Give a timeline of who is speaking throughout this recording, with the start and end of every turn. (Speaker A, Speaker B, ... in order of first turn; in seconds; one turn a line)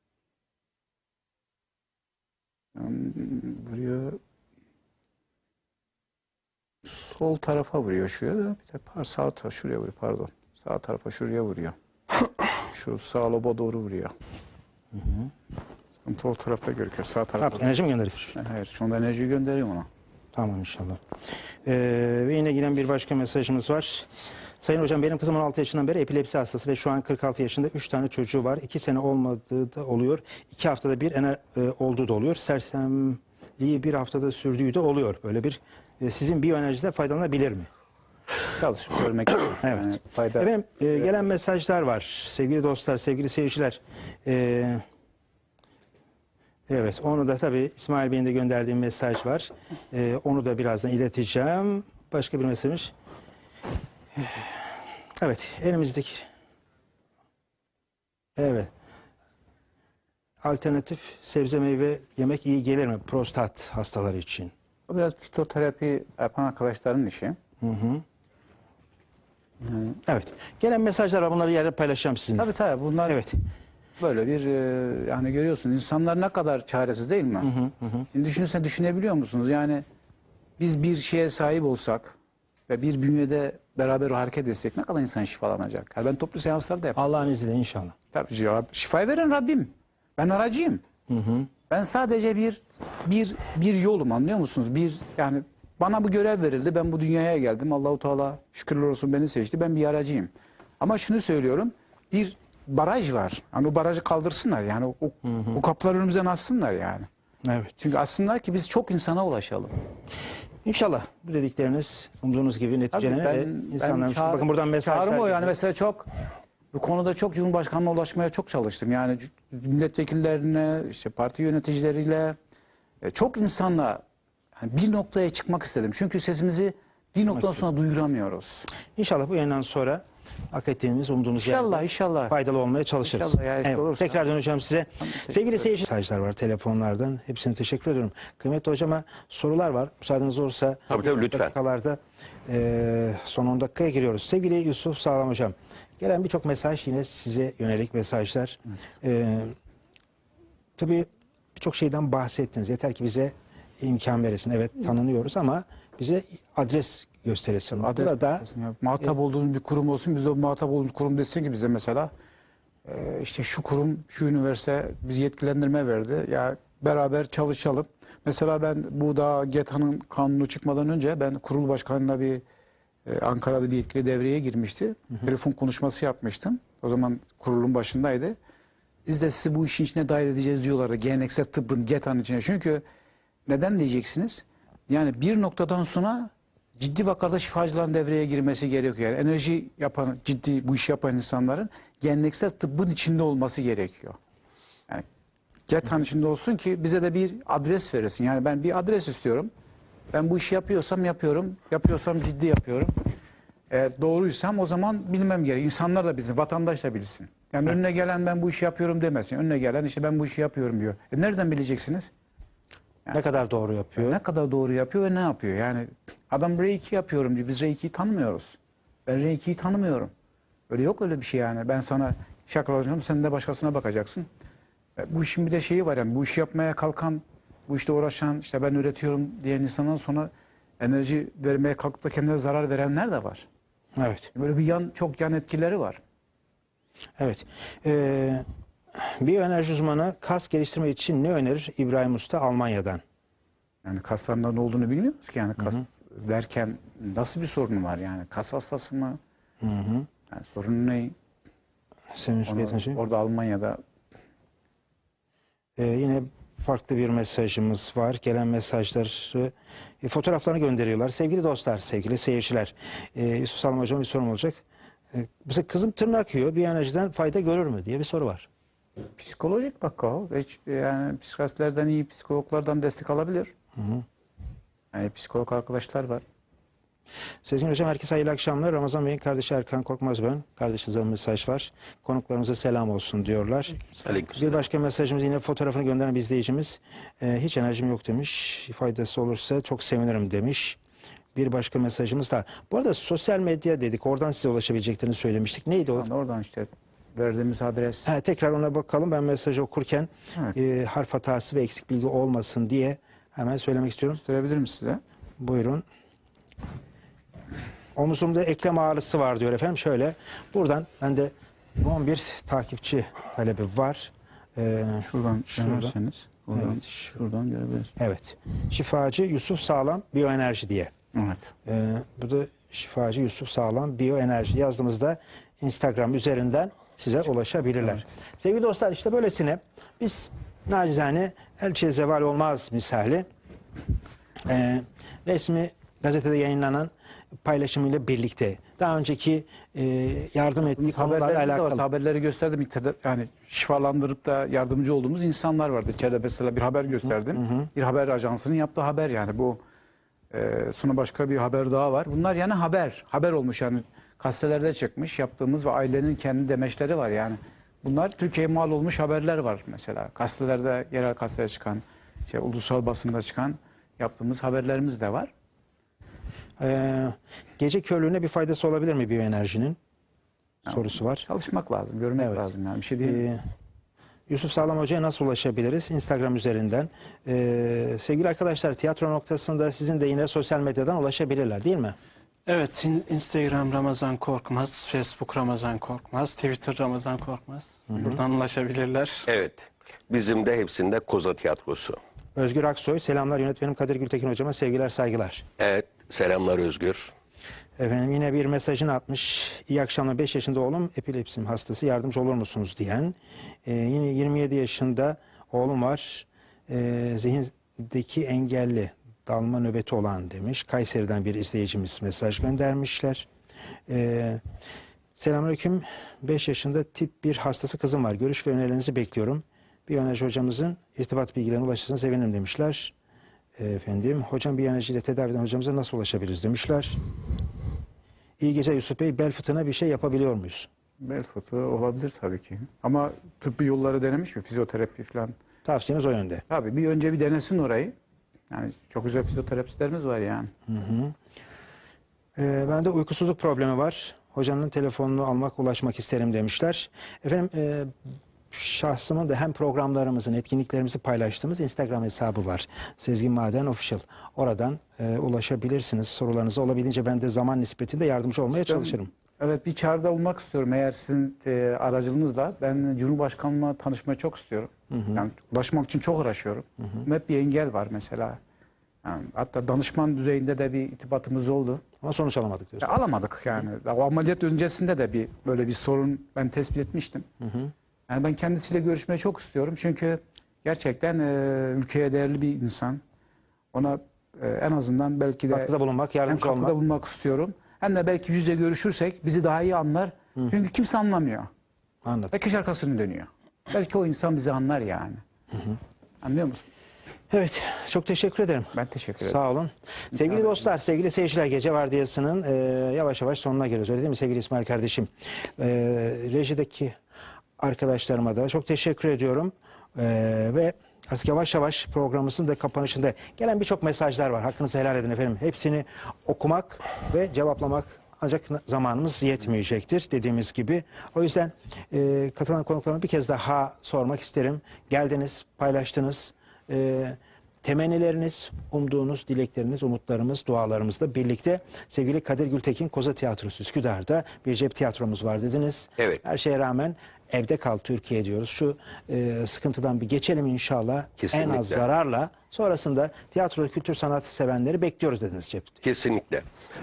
Speaker A: 2.8-4.2
Speaker A: 6.8-11.8
Speaker A: 12.7-14.1
Speaker B: 15.0-15.3
Speaker A: 16.0-17.7
Speaker B: 17.4-18.4
Speaker A: 18.4-19.9
Speaker B: 20.4-21.0
Speaker B: 21.6-24.1
Speaker B: 24.6-37.7
Speaker A: 38.6-40.5
Speaker B: 39.6-44.8
Speaker B: 46.7-52.9
Speaker B: 55.2-56.3
Speaker B: 58.4-58.7
Speaker B: 60.4-64.5
Speaker A: 64.9-67.4
Speaker B: 67.6-68.0
Speaker A: 69.6-70.0
Speaker B: 70.0-72.5
Speaker A: 72.4-73.2
Speaker B: 73.1-73.3
Speaker A: 74.0-77.5
Speaker B: 77.4-78.1
Speaker A: 78.1-79.8
Speaker A: 80.6-82.2
Speaker A: 82.7-87.1
Speaker B: 87.0-88.0
Speaker A: 88.1-90.8
Speaker B: 91.1-91.5
Speaker A: 91.7-107.1
Speaker B: 105.3-105.6
Speaker B: 107.5-107.7
Speaker A: 107.8-109.7
Speaker B: 110.7-115.5
Speaker A: 112.9-116.1
Speaker A: 116.7-122.4
Speaker A: 123.0-124.0
Speaker A: 124.6-128.7
Speaker B: 129.0-149.5
Speaker A: 131.4-132.3
Speaker A: 133.0-134.2
Speaker A: 135.0-135.7
Speaker C: 140.9-141.5
Speaker B: 150.8-158.5
Speaker A: 157.8-162.1
Speaker A: 162.8-172.4
Speaker A: 173.1-178.4
Speaker A: 179.1-182.8
Speaker A: 183.5-194.2
Speaker A: 195.7-199.5
Speaker A: 200.1-202.9
Speaker A: 203.7-212.1
Speaker B: 213.1-214.2
Speaker A: 214.0-220.1
Speaker A: 220.7-224.3
Speaker A: 225.0-233.5
Speaker B: 234.0-234.3
Speaker A: 234.3-236.0
Speaker B: 237.2-238.4
Speaker B: 239.0-243.0
Speaker A: 243.8-249.2
Speaker B: 249.6-250.1
Speaker A: 250.3-251.2
Speaker B: 252.2-253.0
Speaker A: 252.5-253.8
Speaker B: 255.8-264.6
Speaker B: 265.1-268.5
Speaker A: 269.2-273.5
Speaker B: 273.8-274.1
Speaker A: 274.9-276.2
Speaker B: 277.4-290.8
Speaker C: 284.1-284.6
Speaker B: 291.4-296.1
Speaker A: 295.9-298.1
Speaker B: 298.1-304.2
Speaker A: 304.2-305.0
Speaker B: 305.4-305.8
Speaker B: 308.0-315.9
Speaker A: 315.0-317.9
Speaker B: 316.5-316.8
Speaker B: 318.0-320.9
Speaker A: 321.1-321.5
Speaker B: 321.7-333.2
Speaker B: 334.4-336.9
Speaker B: 337.4-341.8
Speaker A: 340.6-349.6
Speaker B: 347.3-347.7
Speaker A: 350.3-365.3
Speaker B: 366.6-369.8
Speaker B: 370.7-371.2
Speaker A: 370.7-373.3
Speaker B: 373.0-373.4
Speaker B: 374.3-382.0
Speaker D: 382.5-389.3
Speaker B: 387.9-388.2
Speaker C: 389.3-392.0
Speaker B: 392.4-395.5
Speaker C: 395.6-397.1
Speaker B: 397.8-413.3
Speaker B: 413.9-414.4
Speaker B: 415.2-422.9
Speaker B: 423.6-427.0
Speaker B: 428.4-430.7
Speaker A: 431.0-435.3
Speaker B: 435.6-436.4
Speaker A: 436.5-437.9
Speaker A: 438.5-440.5
Speaker B: 440.7-441.1
Speaker B: 442.4-447.9
Speaker B: 448.5-459.1
Speaker A: 458.5-468.4
Speaker B: 464.9-465.2
Speaker A: 469.0-471.8
Speaker B: 472.0-472.9
Speaker A: 472.8-477.3
Speaker B: 477.4-477.7
Speaker A: 478.1-483.0
Speaker A: 483.7-485.7
Speaker B: 485.5-486.8
Speaker A: 486.3-491.5
Speaker B: 492.1-492.3
Speaker A: 492.3-495.2
Speaker A: 496.2-496.6
Speaker B: 497.3-507.0
Speaker A: 498.7-499.4
Speaker A: 500.1-500.7
Speaker B: 507.6-545.8
Speaker C: 541.2-541.8
Speaker C: 545.8-546.5